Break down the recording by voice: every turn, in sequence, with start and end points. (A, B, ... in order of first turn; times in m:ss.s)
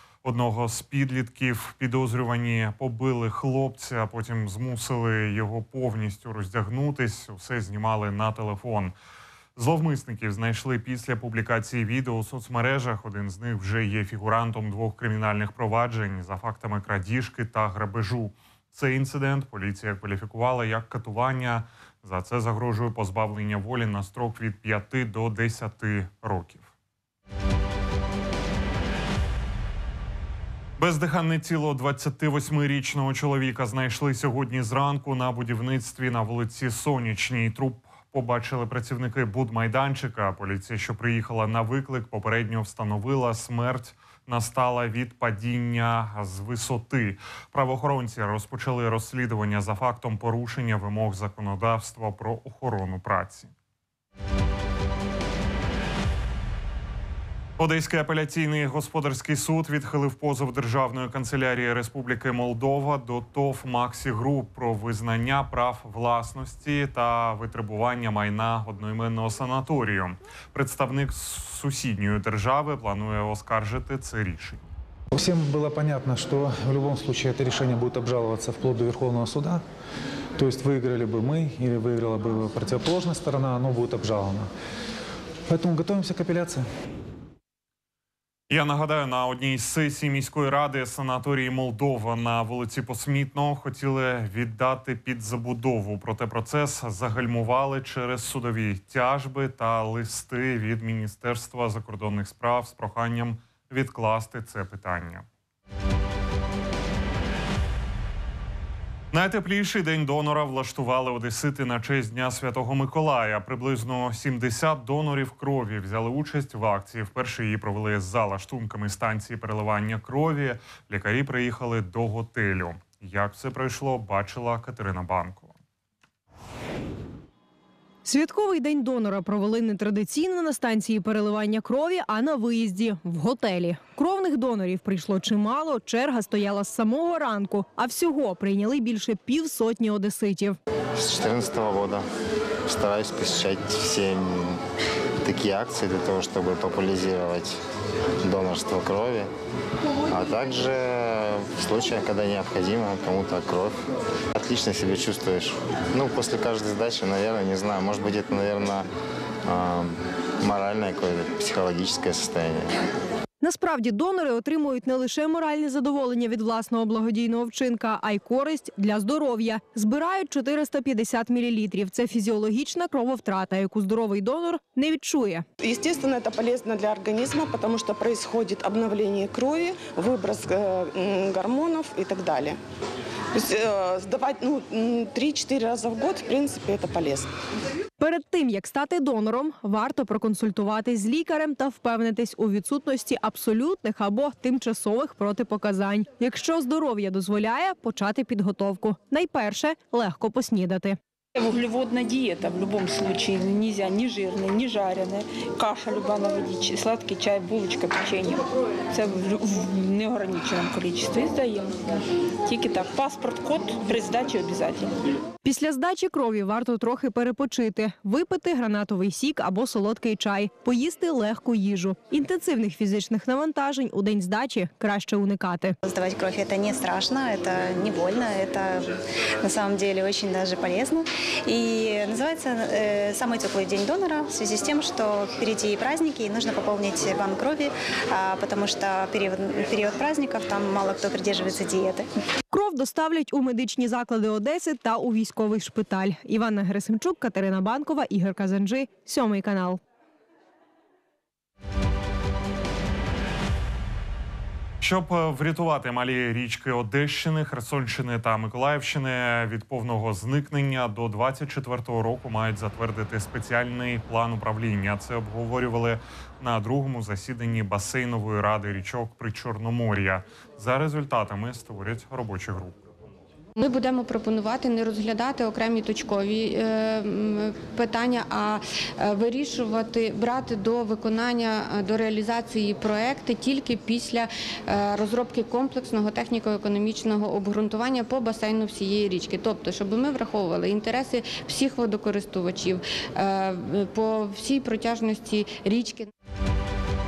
0:00.2-0:08.9 A
0:09.6-0:26.7 A
0:30.8-0:53.5 A
0:57.6-1:14.7 A
1:15.1-1:19.6 B
1:20.4-1:24.5 B
1:25.5-1:26.6 B
1:28.5-1:45.2 A
1:49.1-2:05.6 A
2:08.0-2:20.6 C
2:21.0-2:22.0 D
2:22.6-2:24.6 D
2:25.2-2:27.6 D
2:28.2-2:29.3 D
2:30.1-2:33.8 D
2:34.3-2:38.9 D
2:39.4-2:42.7 D
2:43.4-2:55.4 C
2:55.6-3:02.6 E
3:03.3-3:07.3 E
3:08.0-3:21.0 C
3:21.4-3:31.8 F
3:32.4-3:34.9 F
3:35.4-3:45.8 C
3:45.8-3:48.9 G
3:49.4-4:02.1 G
4:02.5-4:09.8 C
4:14.8-4:32.8 A
4:33.6-4:56.1 H